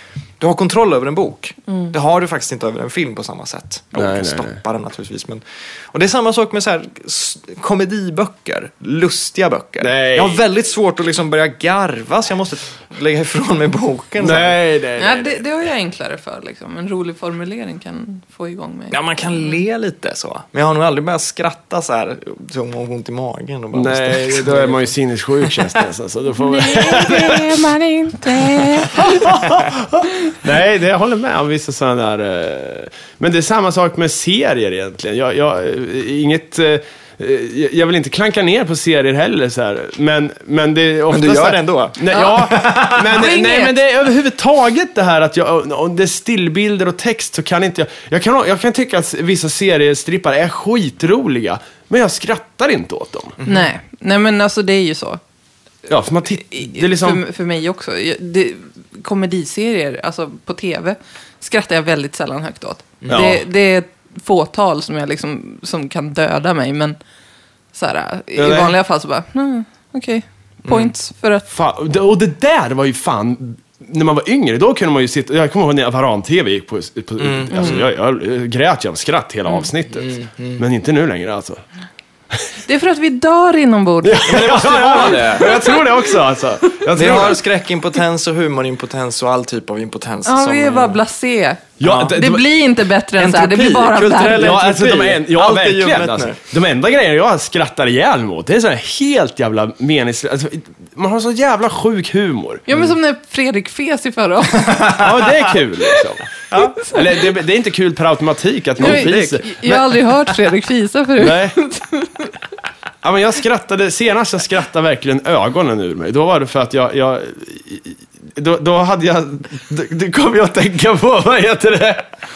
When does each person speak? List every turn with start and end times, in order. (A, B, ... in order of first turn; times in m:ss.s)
0:00.4-0:14.6 A
0:04.0-0:04.6 B
0:09.8-0:10.4 B
0:14.2-0:15.4 B
0:15.0-0:19.0 C
0:18.9-0:25.8 A
0:23.7-0:27.6 B
0:26.4-0:29.0 C
0:28.9-0:53.4 B
0:41.1-0:43.2 A
0:43.1-0:43.7 C
0:53.4-0:53.7 A
0:53.4-0:55.2 C
0:55.9-0:57.2 B
0:56.5-1:07.0 C
1:03.1-1:03.4 B
1:07.7-1:11.4 C
1:08.4-1:08.8 B
1:10.6-1:10.9 A
1:11.5-1:21.6 B
1:17.2-1:17.9 A
1:19.9-1:20.6 A
1:22.6-1:25.8 C
1:24.0-1:27.4 B
1:24.2-1:25.6 A
1:26.9-1:31.0 A
1:30.2-1:34.5 C
1:31.8-1:32.4 B
1:31.8-1:32.2 A
1:33.1-1:36.4 A
1:34.4-1:42.6 B
1:42.7-1:45.0 C
1:45.0-1:49.9 B
1:46.5-1:46.8 A
1:48.8-1:52.3 C
1:48.8-1:49.3 A
1:51.2-1:51.6 B
1:53.0-2:02.0 B